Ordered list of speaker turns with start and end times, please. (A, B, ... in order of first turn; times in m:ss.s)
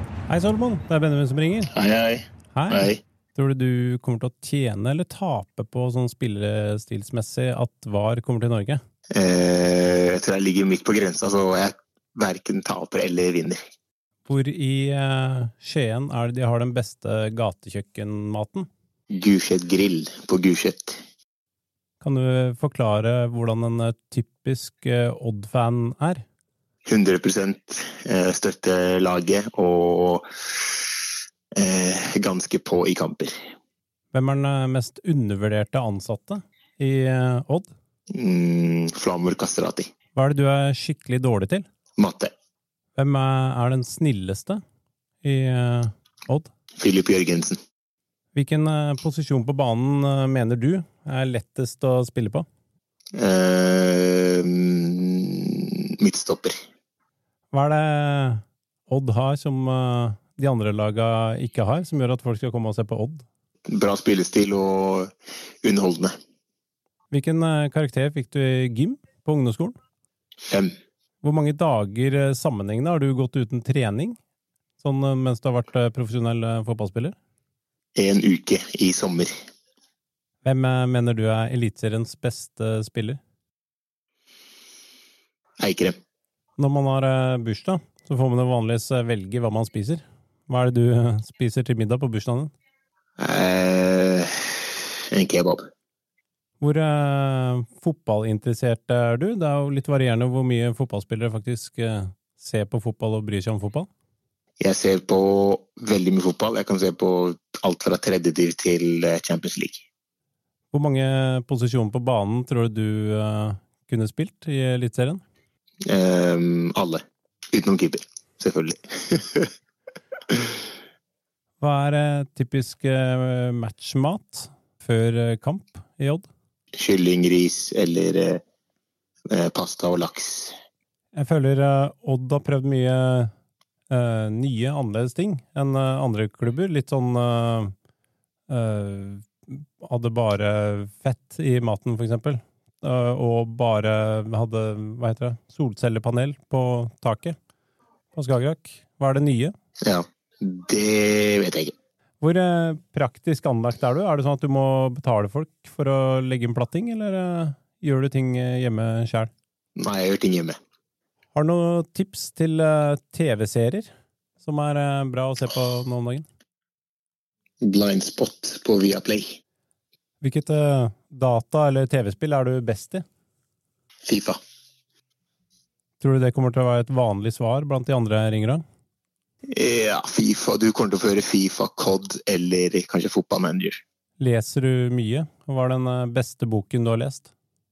0:00.3-0:01.7 A
0:01.7-0:03.0 B
0:02.5-0:08.8 A
0:09.1-0:13.6 B
0:14.3-0:18.7 A
0:19.1-0:21.0 B
0:22.0-0:26.2 A
0:26.9-0:30.9 B
0:31.6-0:33.3 B
0:34.1-0:37.7 A
0:38.1-0:39.9 B
0:40.2-0:41.6 A
0:42.0-0:42.3 B
0:43.0-0:44.6 A
0:45.2-0:46.5 A
0:46.8-0:47.6 B
0:48.3-0:52.5 A
0:53.2-0:56.6 B
0:57.5-1:03.2 A
1:03.7-1:05.1 B
1:05.6-1:06.1 B
1:07.1-1:09.8 A
1:11.2-1:14.2 A
1:14.8-1:17.2 A
1:18.0-1:19.3 B
1:20.4-1:23.2 A
1:25.6-1:25.9 B
1:26.6-1:32.5 A
1:33.2-1:35.6 B
1:36.6-1:43.9 A
1:44.6-1:49.8 B
1:50.7-1:55.2 A
1:55.9-1:59.5 B
2:01.6-2:06.3 A
2:06.8-2:08.4 B
2:09.3-2:10.5 B
2:11.2-2:13.3 A
2:13.9-2:17.7 A
2:18.5-2:27.4 A
2:28.1-2:29.5 A
2:29.8-2:31.7 B
2:32.2-2:39.3 A
2:39.8-2:40.6 B
2:41.3-2:43.9 A
2:44.4-2:46.2 A
2:47.6-2:49.4 B
2:50.2-2:53.0 A
2:54.1-2:54.4 B
2:56.0-2:58.6 A
2:59.5-3:03.8 B
3:04.2-3:07.3 A